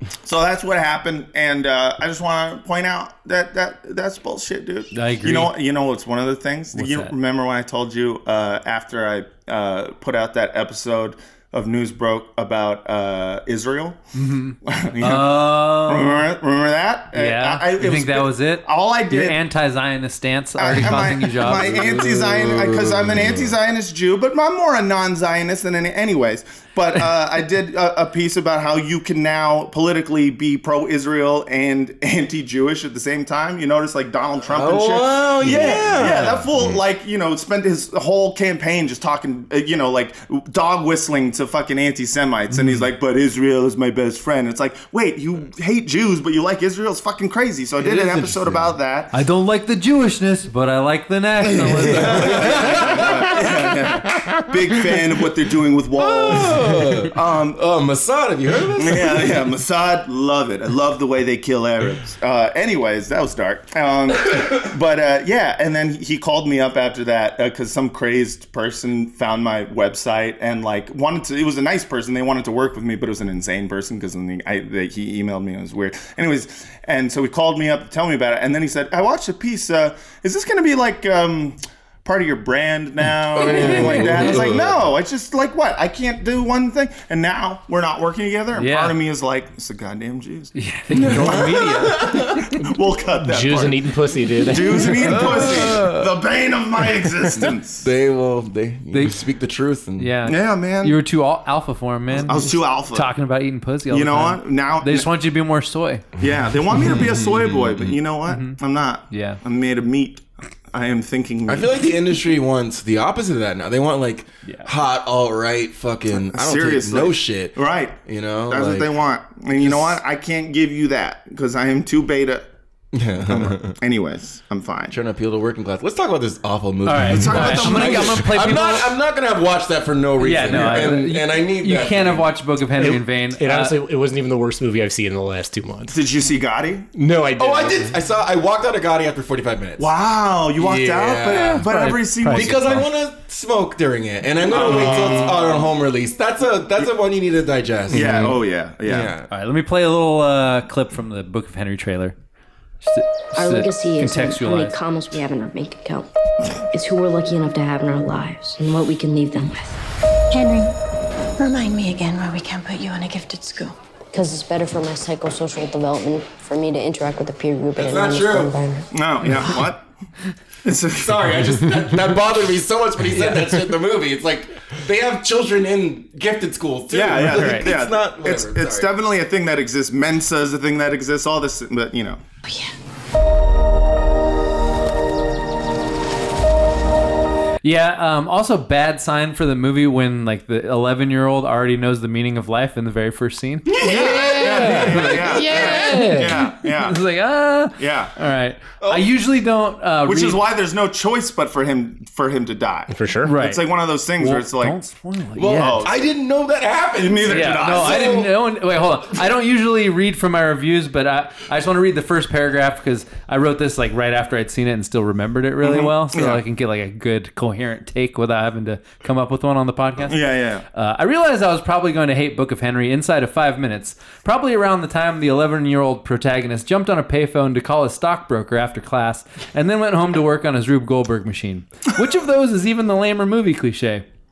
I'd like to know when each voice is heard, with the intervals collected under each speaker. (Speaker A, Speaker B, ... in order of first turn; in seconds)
Speaker A: 0.2-14.0, 14.6-19.4, 20.6-49.1, 51.4-57.6, 58.8-90.5, 91.1-97.9, 100.3-101.0, 102.2-103.1, 103.9-105.1, 106.2-111.8, 116.1-122.5, 123.3-125.0, 127.0-128.3, 135.9-136.9, 139.8-142.9, 144.4-145.7, 147.9-149.1, 168.9-169.9, 170.6-171.5, 176.9-182.2, 193.7-197.0, 197.8-198.2, 200.1-204.8, 205.5-206.1, 207.0-208.2, 215.6-216.4, 220.1-220.7
Speaker B: 4.9-5.5, 6.7-7.1, 14.2-16.3, 17.1-21.9, 42.5-42.8, 49.1-52.8, 88.5-89.0, 90.6-92.5, 98.9-99.2, 100.0-106.0, 108.3-108.6, 109.1-109.4, 126.8-128.9, 130.2-133.8, 141.3-142.8, 149.3-152.2, 152.8-154.8, 177.2-177.7, 187.6-193.8, 195.0-200.4, 203.2-205.8, 207.3-220.2, 220.7-234.0
Speaker C: 21.4-23.5, 34.5-36.8, 47.8-48.7, 51.8-53.4, 56.0-59.4, 83.3-84.8, 90.9-92.4, 94.8-96.0, 97.8-100.1, 107.1-107.9, 111.5-119.0, 119.5-120.0, 122.9-123.8, 124.9-132.3, 137.4-139.9, 140.6-141.7, 142.3-148.3, 148.8-149.3, 167.8-168.6, 171.0-178.9, 193.7-196.0, 198.8-199.1, 205.4-208.4
Speaker D: 93.2-95.3, 132.8-136.0, 137.0-138.0, 144.6-145.3, 193.7-196.4, 202.9-203.3
Speaker E: 153.4-156.1, 156.7-159.8, 164.1-168.9
Speaker F: 160.3-160.8, 161.4-163.8, 182.5-182.7